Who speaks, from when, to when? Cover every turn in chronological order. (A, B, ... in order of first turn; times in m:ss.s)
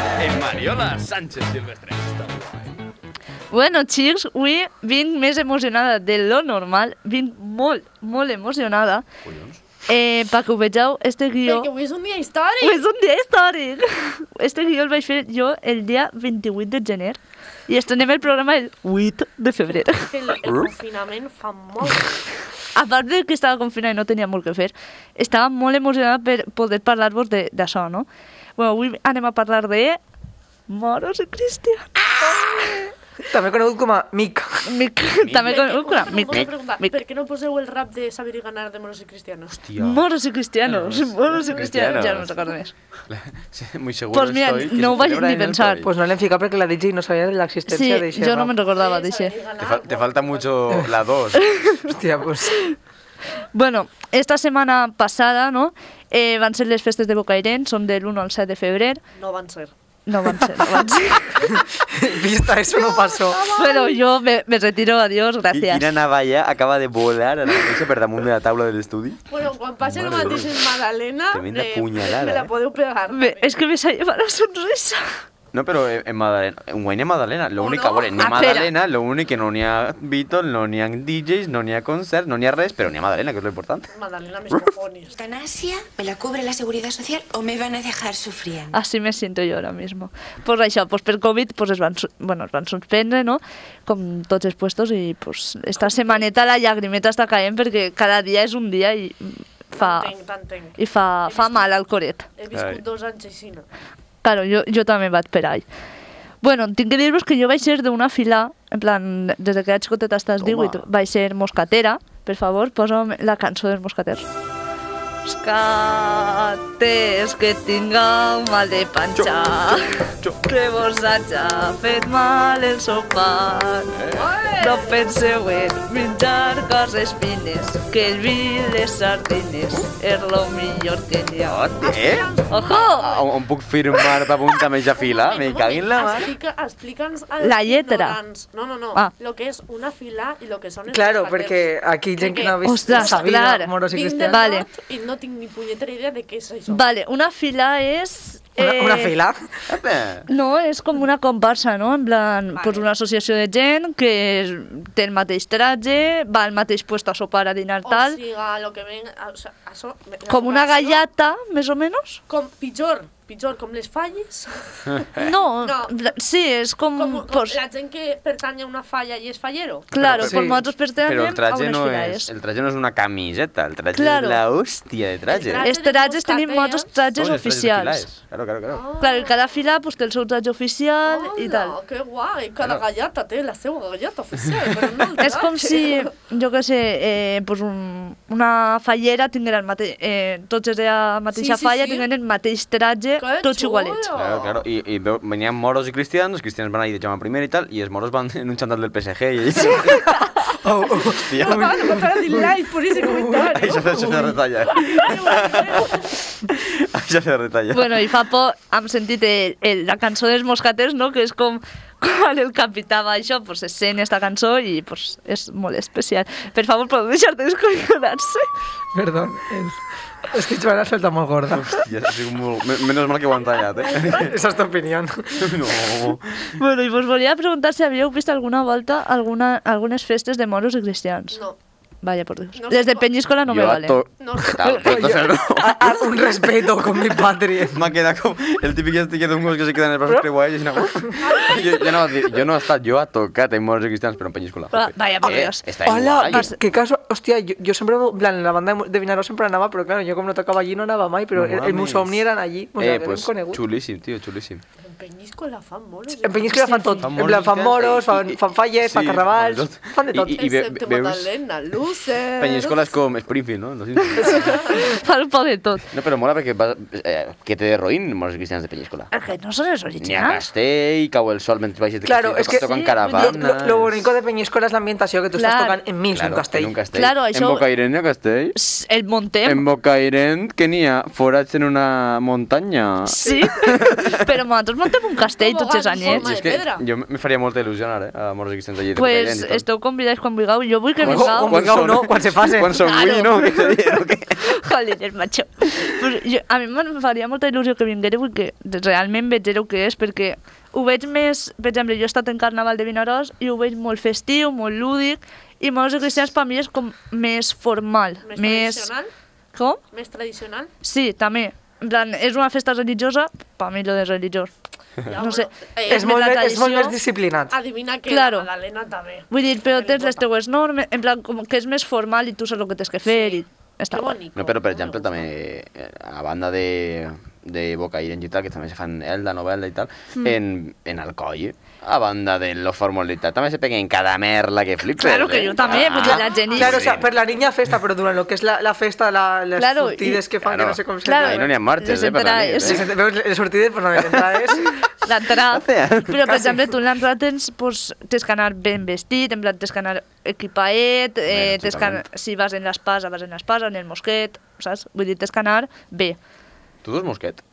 0:00.2-0:02.7 A
0:03.5-0:09.0 B
0:09.2-0:09.6 A
0:09.9-0:11.7 B
0:11.4-0:12.9 C
0:12.6-0:20.1 B
0:19.8-0:22.2 C
0:22.7-0:30.0 B
0:30.7-0:32.9 B
0:33.2-0:34.7 D
0:34.6-0:36.9 B
0:35.1-0:35.6 A
0:35.4-0:39.6 C
0:39.5-0:40.0 A
0:39.8-0:42.7 B
0:40.6-0:42.4 A
0:43.1-0:45.9 A
0:44.1-0:45.8 B
0:45.8-0:48.5 D
0:47.7-0:49.3 B
0:48.6-0:50.5 C
0:49.6-0:51.9 A
0:51.4-0:51.7 B
0:51.9-0:52.6 D
0:53.5-0:59.0 B
0:59.2-0:59.7 C
1:00.1-1:01.5 B
1:01.5-1:03.4 D
1:02.7-1:04.0 C
1:03.5-1:05.8 B
1:05.5-1:09.3 A
1:09.3-1:13.6 C
1:09.8-1:10.6 A
1:11.3-1:12.5 A
1:13.1-1:15.0 B
1:15.5-1:23.9 A
1:17.6-1:18.3 C
1:18.2-1:18.7 B
1:23.9-1:25.1 C
1:25.1-1:28.8 E
1:28.7-1:40.1 B
1:35.8-1:36.2 C
1:39.7-1:41.7 C
1:40.8-1:42.3 B
1:42.4-1:43.7 C
1:42.5-1:42.8 A
1:44.2-1:45.6 B
1:46.4-1:54.3 B
1:50.4-1:50.8 A
1:55.2-2:03.9 B
1:59.1-2:00.4 A
2:03.9-2:04.3 A
2:04.1-2:05.0 C
2:04.6-2:11.6 B
2:11.4-2:12.3 A
2:11.8-2:13.3 C
2:12.5-2:13.1 B
2:12.9-2:16.3 A
2:15.0-2:23.3 C
2:17.4-2:18.2 B
2:20.9-2:24.5 D
2:22.6-2:23.7 B
2:23.9-2:26.8 C
2:24.3-2:24.7 B
2:26.7-2:29.1 B
2:28.6-2:29.5 D
2:29.7-2:30.3 A
2:30.3-2:38.2 B
2:32.5-2:32.9 C
2:37.8-2:41.1 C
2:40.3-2:42.2 B
2:42.3-2:45.1 C
2:44.9-2:45.2 A
2:45.2-2:47.6 B
2:45.6-2:46.1 C
2:47.0-2:49.9 C
2:49.9-2:52.3 B
2:49.9-2:55.6 A
2:50.2-2:50.6 D
2:53.9-2:54.4 B
2:55.3-2:57.0 C
2:55.6-2:58.0 B
2:57.2-2:58.8 A
2:58.7-2:59.5 C
2:59.0-3:01.7 B
3:01.0-3:06.1 C
3:05.2-3:14.1 B
3:11.3-3:12.1 C
3:13.2-3:14.6 C
3:14.1-3:20.1 A
3:20.6-3:24.3 D
3:21.2-3:21.8 A
3:21.4-3:26.1 C
3:23.5-3:28.1 A
3:27.7-3:38.5 B
3:38.9-3:41.8 D
3:41.5-3:44.4 A
3:44.1-3:45.5 D
3:45.3-3:46.6 A
3:46.6-3:51.4 B
3:51.3-3:51.6 C
3:52.0-3:54.0 B
3:52.5-3:53.1 C
3:53.5-3:56.0 A
3:54.2-3:54.7 C
3:54.6-3:55.0 B
3:54.8-3:57.8 D
3:57.7-4:06.5 A
4:01.2-4:02.0 C
4:04.7-4:05.7 B
4:05.8-4:13.6 D
4:06.3-4:06.5 B
4:11.4-4:12.2 A
4:12.8-4:14.6 A
4:14.8-4:17.0 C
4:16.2-4:20.4 D
4:16.6-4:17.0 B
4:17.0-4:21.3 A
4:20.3-4:22.9 C
4:22.4-4:24.8 A
4:24.1-4:25.9 B
4:24.2-4:24.8 C
4:25.9-4:29.1 A
4:29.1-4:30.4 B
4:30.0-4:34.0 A
4:32.0-4:36.8 D
4:32.5-4:33.4 B
4:35.4-4:35.8 B
4:36.1-4:38.6 A
4:36.9-4:37.6 B
4:38.5-4:39.6 B
4:39.4-4:44.2 A
4:43.1-4:46.2 B
4:45.4-4:46.8 C
4:46.0-4:49.6 A
4:49.0-4:51.6 B
4:51.0-4:54.4 A
4:51.0-4:52.9 D
4:52.8-5:08.9 B
5:08.2-5:09.1 C
5:09.5-5:09.8 B
5:09.9-5:10.7 C
5:10.8-5:14.5 B
5:15.0-5:16.2 C
5:15.1-5:16.9 B
5:15.9-5:17.5 D
5:17.5-5:20.2 C
5:18.1-5:18.5 B
5:19.3-5:24.2 B
5:23.1-5:25.3 C
5:24.4-5:37.1 A
5:35.0-5:36.8 B
5:35.8-5:41.5 D
5:39.6-5:40.2 B
5:40.4-5:42.8 A
5:41.0-5:42.8 B
5:42.6-5:44.8 D
5:44.1-5:44.4 A
5:45.0-5:56.2 B
5:45.4-5:46.3 A
5:46.2-5:46.8 D
5:51.3-5:52.0 A
5:56.8-5:57.4 A